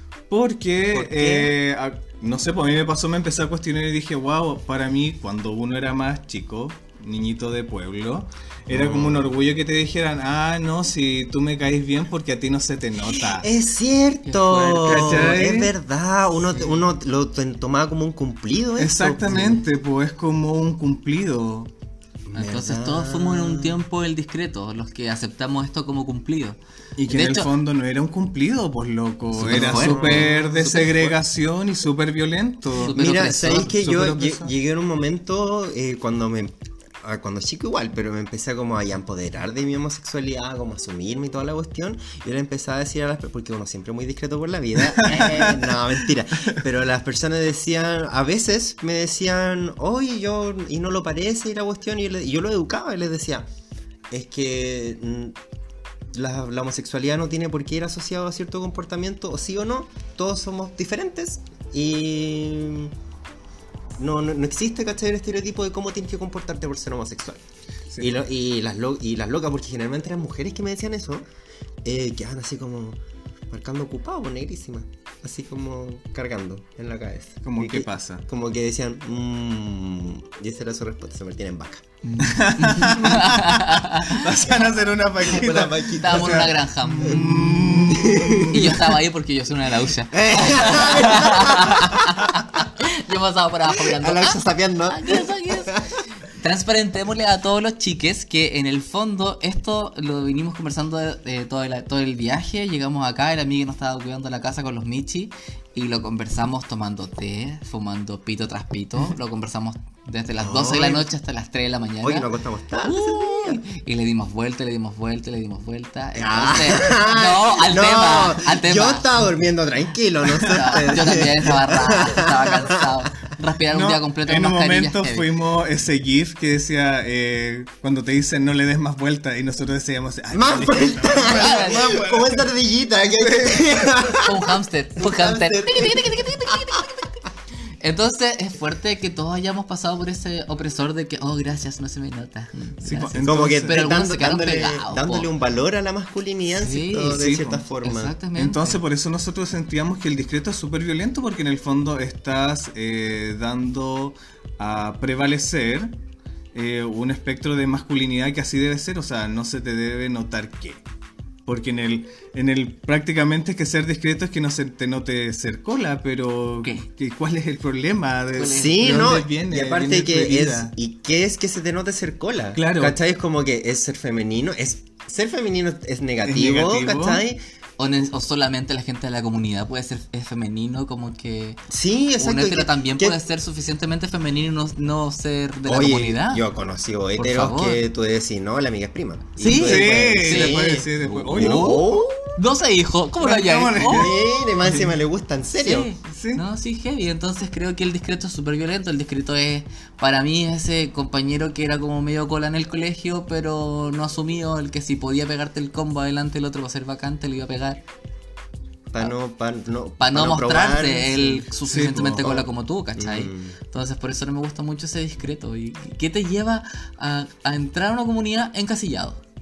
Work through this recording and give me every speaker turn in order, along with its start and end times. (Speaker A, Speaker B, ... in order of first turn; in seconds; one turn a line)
Speaker A: 0.3-13.5
Speaker B: 0.9-1.5
Speaker B: 8.7-9.3
Speaker B: 13.1-19.6
Speaker C: 14.2-15.4
Speaker A: 14.8-15.7
Speaker A: 18.8-21.7
Speaker B: 22.3-23.8
Speaker C: 22.3-27.5
Speaker A: 27.0-34.5
Speaker B: 29.4-30.4
Speaker C: 29.4-31.1
Speaker C: 32.8-33.8
Speaker B: 32.9-53.5
Speaker A: 44.9-45.7
Speaker B: 54.1-55.4
Speaker B: 56.1-62.9
Speaker B: 64.0-67.4
Speaker B: 68.0-71.2
Speaker B: 71.8-73.0
Speaker B: 73.5-81.8
Speaker A: 77.4-78.2
Speaker C: 82.0-84.3
Speaker A: 82.2-88.8
Speaker B: 85.2-86.5
Speaker C: 86.0-87.4
Speaker B: 87.0-88.8
Speaker C: 88.5-95.8
Speaker B: 90.1-92.4
Speaker B: 93.7-95.9
Speaker C: 96.4-112.3
Speaker B: 110.4-111.1
Speaker B: 112.0-113.6
Speaker C: 112.8-119.1
Speaker B: 116.1-123.0
Speaker C: 120.3-125.3
Speaker A: 123.7-132.5
Speaker B: 130.3-136.9
Speaker C: 131.2-132.0
Speaker A: 133.2-133.9
Speaker C: 134.2-137.2
Speaker C: 137.8-145.3
Speaker A: 142.8-143.8
Speaker B: 143.2-148.1
Speaker C: 146.6-147.3
Speaker A: 147.1-147.7
Speaker C: 147.8-148.8
Speaker A: 148.4-155.9
Speaker A: 156.5-160.8
Speaker A: 161.5-170.7
Speaker C: 168.4-168.9
Speaker B: 168.5-177.4
Speaker A: 172.6-173.0
Speaker A: 176.2-177.2
Speaker C: 177.8-181.6
Speaker B: 181.7-183.2
Speaker C: 182.2-186.4
Speaker B: 185.7-192.3
Speaker C: 187.2-187.8
Speaker C: 189.4-190.6
Speaker A: 189.4-191.8
Speaker C: 191.3-194.2
Speaker A: 193.2-194.9
Speaker B: 193.8-195.9
Speaker C: 195.6-207.8
Speaker A: 196.1-196.4
Speaker B: 208.9-211.5
Speaker C: 210.0-219.2
Speaker A: 211.7-212.4
Speaker B: 213.0-213.6